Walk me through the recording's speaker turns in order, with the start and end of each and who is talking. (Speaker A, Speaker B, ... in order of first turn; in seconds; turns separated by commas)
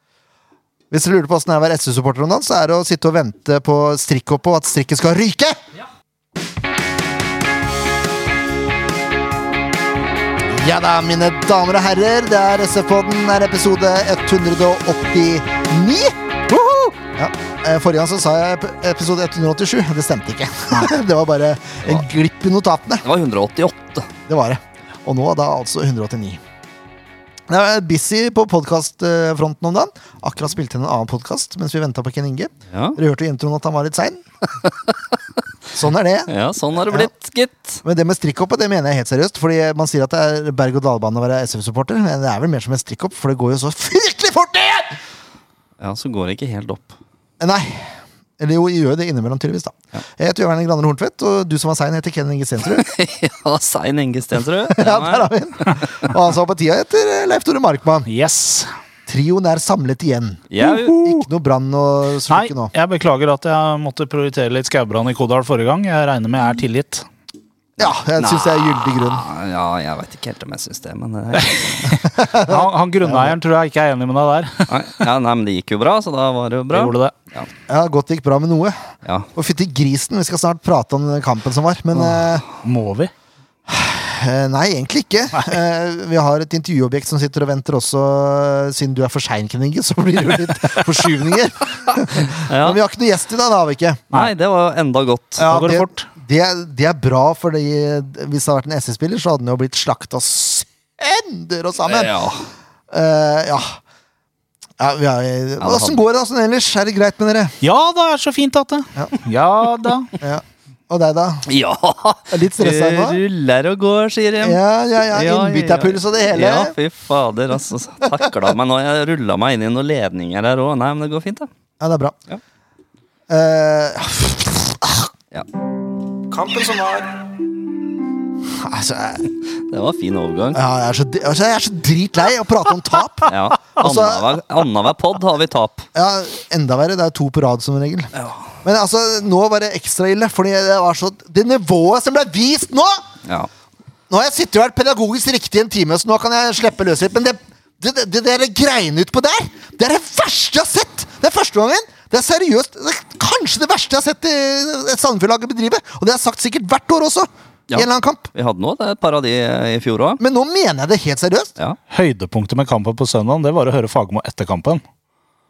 Speaker A: 0.9-5.6, Speaker A: 10.5-23.0, Speaker B: 23.0-24.1, Speaker A: 24.3-26.4, Speaker A: 27.5-34.2, Speaker B: 32.7-33.0, Speaker B: 34.6-35.4, Speaker A: 35.7-37.1, Speaker B: 36.3-37.8, Speaker A: 37.8-45.0, Speaker B: 45.8-47.0, Speaker A: 47.4-52.8, Speaker B: 52.7-56.1, Speaker A: 54.7-58.1, Speaker C: 58.0-58.7, Speaker A: 59.1-62.7, Speaker B: 60.5-61.0, Speaker C: 60.6-61.1, Speaker C: 62.3-67.1, Speaker A: 67.8-69.2, Speaker B: 67.8-72.0, Speaker A: 72.0-73.3, Speaker C: 72.4-75.0, Speaker B: 74.7-77.5, Speaker C: 76.7-77.1, Speaker A: 77.7-82.4, Speaker B: 79.0-79.3, Speaker C: 81.9-83.1, Speaker A: 83.7-94.0, Speaker B: 91.9-92.8, Speaker B: 94.1-95.5, Speaker A: 95.4-102.2, Speaker C: 95.5-96.1, Speaker B: 101.8-102.5, Speaker A: 102.9-103.8, Speaker A: 104.8-107.6, Speaker B: 105.6-106.0, Speaker C: 107.6-110.1, Speaker A: 110.2-111.5, Speaker B: 111.5-121.5, Speaker A: 112.3-113.2, Speaker A: 114.4-116.7, Speaker A: 121.8-122.2, Speaker A: 123.3-125.1, Speaker A: 126.3-127.2, Speaker A: 128.5-129.3, Speaker B: 129.3-130.6, Speaker A: 130.5-134.4, Speaker B: 133.3-135.9, Speaker A: 135.9-138.1, Speaker B: 138.1-138.6, Speaker A: 138.6-143.0, Speaker A: 144.1-158.3, Speaker B: 157.7-160.2, Speaker A: 160.2-161.5, Speaker C: 161.9-164.8